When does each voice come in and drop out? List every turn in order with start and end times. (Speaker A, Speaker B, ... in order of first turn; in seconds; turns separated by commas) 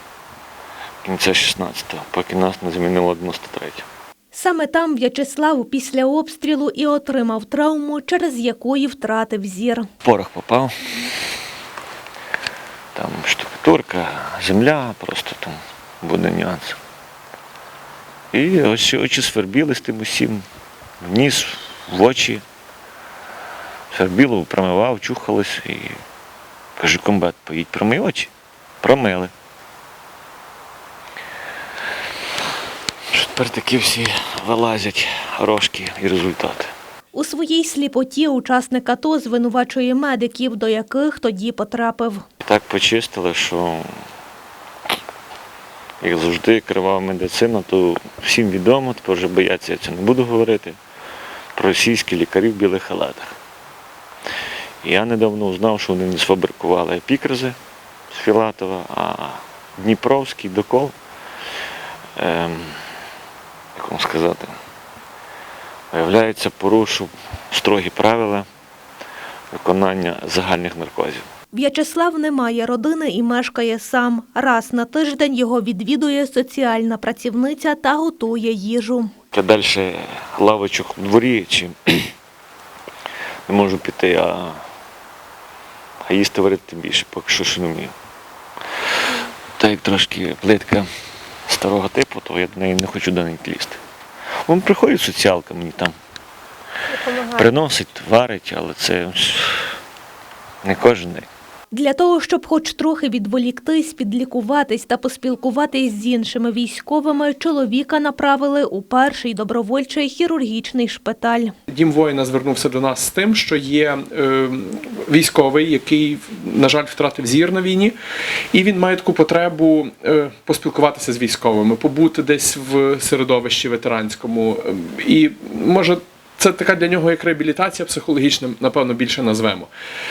Speaker A: 1.0-3.9, Speaker B: 4.3-9.9, Speaker A: 10.0-10.9, Speaker A: 12.9-16.8, Speaker A: 18.3-20.4, Speaker A: 21.0-22.4, Speaker A: 23.9-26.0, Speaker A: 26.8-29.3, Speaker A: 33.1-36.7, Speaker B: 37.1-42.2, Speaker A: 42.4-43.9, Speaker A: 46.0-50.8, Speaker A: 51.5-53.4, Speaker A: 54.8-57.6, Speaker A: 58.1-60.9, Speaker A: 62.2-63.0, Speaker A: 63.7-64.5, Speaker A: 65.9-68.5, Speaker A: 69.5-71.2, Speaker B: 71.5-79.1, Speaker A: 79.3-82.1, Speaker A: 83.5-84.7, Speaker A: 86.0-87.9, Speaker A: 89.6-90.9, Speaker A: 91.5-93.8, Speaker A: 94.5-95.9, Speaker A: 97.1-99.8, Speaker A: 100.6-101.3, Speaker B: 101.7-111.5, Speaker C: 111.7-117.9, Speaker C: 118.5-129.7